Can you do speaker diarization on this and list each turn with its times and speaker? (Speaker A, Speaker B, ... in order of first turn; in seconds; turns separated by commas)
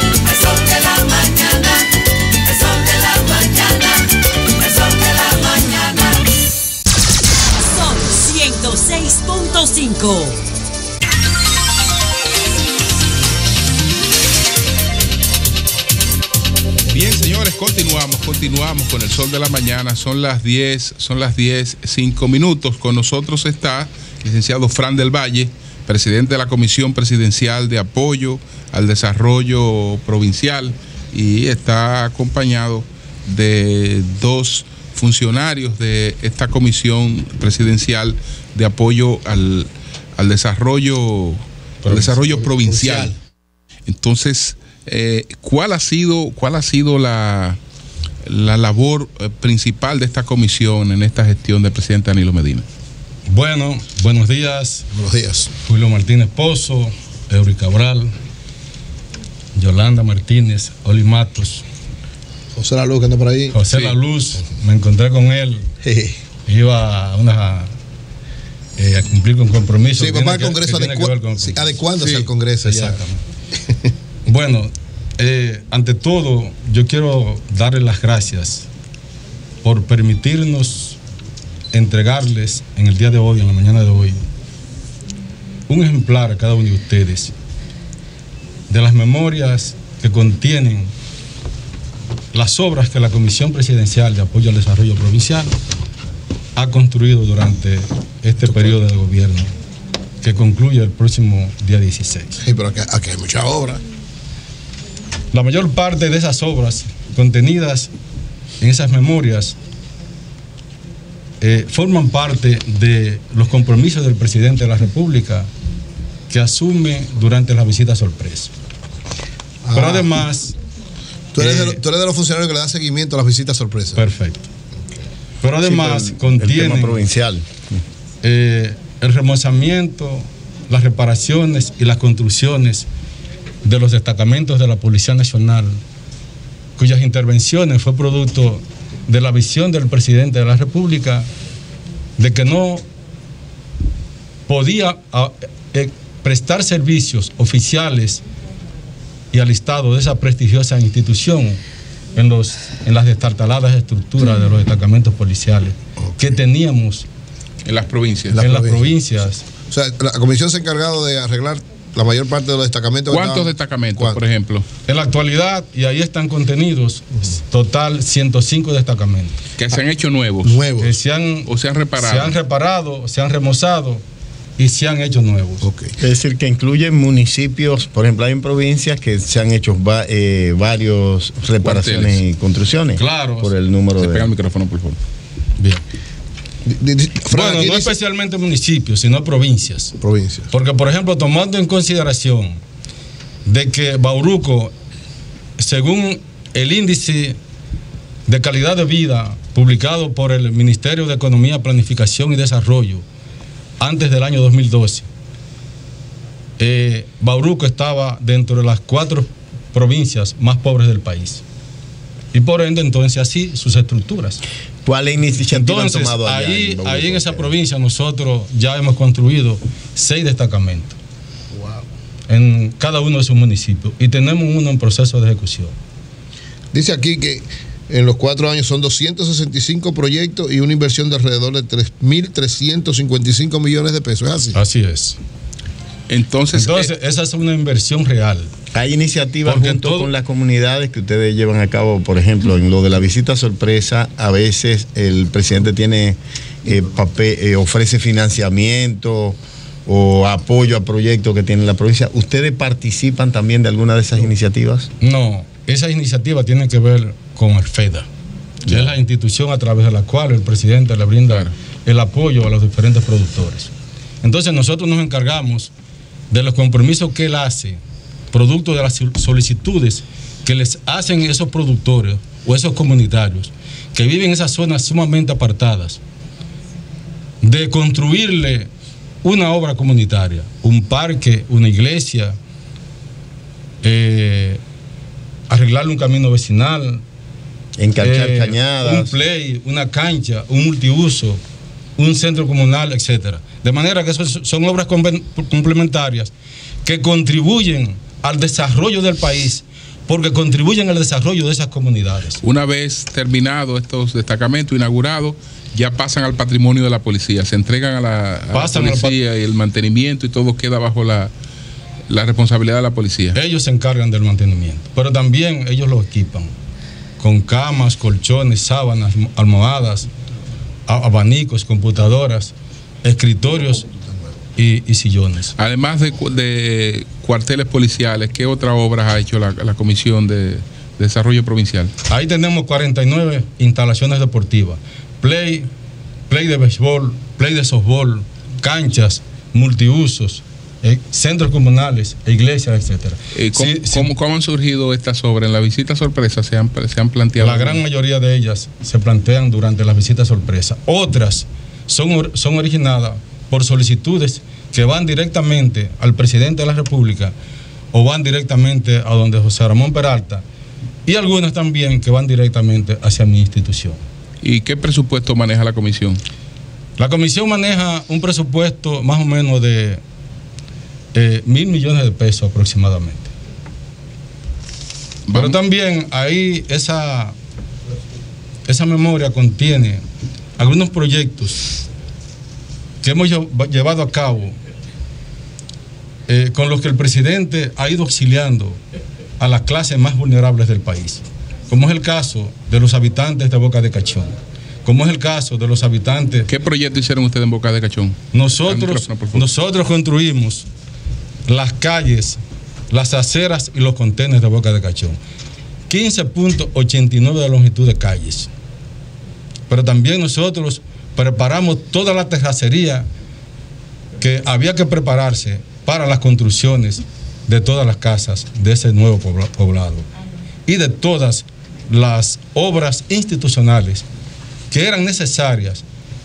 Speaker A: 0.3-1.7, Speaker A: 2.5-3.6, Speaker A: 7.6-10.4, Speaker B: 16.9-43.1, Speaker C: 41.8-42.3, Speaker D: 42.5-43.1, Speaker B: 43.9-47.6, Speaker B: 48.2-52.7, Speaker C: 53.3-54.9, Speaker D: 54.9-55.5, Speaker C: 55.6-58.1, Speaker C: 59.5-61.6, Speaker D: 62.5-63.6, Speaker C: 63.5-65.7, Speaker B: 63.7-64.0, Speaker D: 65.8-66.2, Speaker C: 66.5-67.7, Speaker C: 68.8-73.2, Speaker D: 70.0-73.0, Speaker C: 74.3-78.7, Speaker C: 79.6-81.0, Speaker C: 81.7-84.2, Speaker C: 85.7-87.3, Speaker C: 88.7-90.9, Speaker C: 92.3-95.5, Speaker C: 96.6-99.5, Speaker C: 100.2-102.4, Speaker D: 102.4-103.8, Speaker C: 105.3-107.9, Speaker C: 108.6-109.6, Speaker C: 111.4-115.5, Speaker C: 116.3-118.5, Speaker D: 119.7-120.1, Speaker C: 119.8-120.5, Speaker D: 121.3-124.0, Speaker C: 121.4-121.8, Speaker C: 124.0-124.4, Speaker C: 125.4-127.0, Speaker E: 125.6-127.7, Speaker C: 128.2-132.9, Speaker C: 133.6-135.8, Speaker C: 136.8-141.3, Speaker C: 142.2-142.8, Speaker C: 144.5-148.2, Speaker C: 149.3-151.6, Speaker C: 152.2-157.1, Speaker B: 157.7-158.4, Speaker D: 158.3-158.9, Speaker C: 158.4-159.4, Speaker D: 159.7-164.2, Speaker B: 163.1-164.7, Speaker C: 164.9-169.4, Speaker B: 169.6-170.6, Speaker D: 170.4-171.0, Speaker C: 170.8-174.0, Speaker B: 171.4-172.4, Speaker C: 174.6-175.7, Speaker D: 175.6-175.9, Speaker E: 176.0-184.3, Speaker B: 181.6-182.2, Speaker C: 183.0-183.5, Speaker B: 184.0-185.0, Speaker D: 186.7-187.9, Speaker C: 187.3-189.9, Speaker D: 190.0-190.5, Speaker C: 190.5-192.6, Speaker C: 193.4-194.7, Speaker C: 195.6-197.4, Speaker C: 198.3-203.1, Speaker C: 203.8-205.1, Speaker C: 206.6-211.4, Speaker C: 212.3-214.4, Speaker E: 214.8-217.5, Speaker C: 215.5-221.0, Speaker D: 221.6-221.8, Speaker C: 222.3-225.8, Speaker D: 226.7-234.6, Speaker C: 234.5-235.2, Speaker B: 236.1-236.9, Speaker C: 236.5-238.5, Speaker E: 238.7-254.9, Speaker C: 239.5-240.1, Speaker C: 255.0-258.1, Speaker C: 258.6-265.7, Speaker C: 266.3-267.8, Speaker C: 268.3-276.0, Speaker C: 277.4-278.7, Speaker C: 279.2-282.4, Speaker C: 283.8-284.6, Speaker C: 285.5-287.0, Speaker E: 287.8-289.1, Speaker C: 288.0-291.4, Speaker C: 292.0-296.3, Speaker C: 296.9-302.4, Speaker B: 302.4-311.3, Speaker C: 308.5-309.2, Speaker B: 312.1-313.4, Speaker C: 313.3-316.5, Speaker C: 317.2-320.1, Speaker C: 320.9-322.5, Speaker C: 323.0-323.8, Speaker C: 324.6-325.5, Speaker B: 325.6-331.9, Speaker C: 332.1-335.7, Speaker C: 336.3-344.1, Speaker B: 343.4-347.8, Speaker C: 347.4-357.3, Speaker C: 357.9-360.4, Speaker C: 361.1-364.0, Speaker B: 364.4-366.2, Speaker C: 367.0-370.0, Speaker C: 371.1-373.3, Speaker B: 375.3-375.6, Speaker C: 375.3-377.4, Speaker C: 378.7-380.0, Speaker C: 380.6-381.6, Speaker C: 383.0-384.6, Speaker C: 386.3-388.8, Speaker C: 389.4-394.3, Speaker C: 394.9-396.5, Speaker B: 396.5-399.4, Speaker C: 398.3-400.7, Speaker C: 401.5-405.2, Speaker C: 405.9-408.5, Speaker C: 409.7-413.1, Speaker C: 414.2-420.1, Speaker C: 420.7-424.1, Speaker C: 424.7-425.9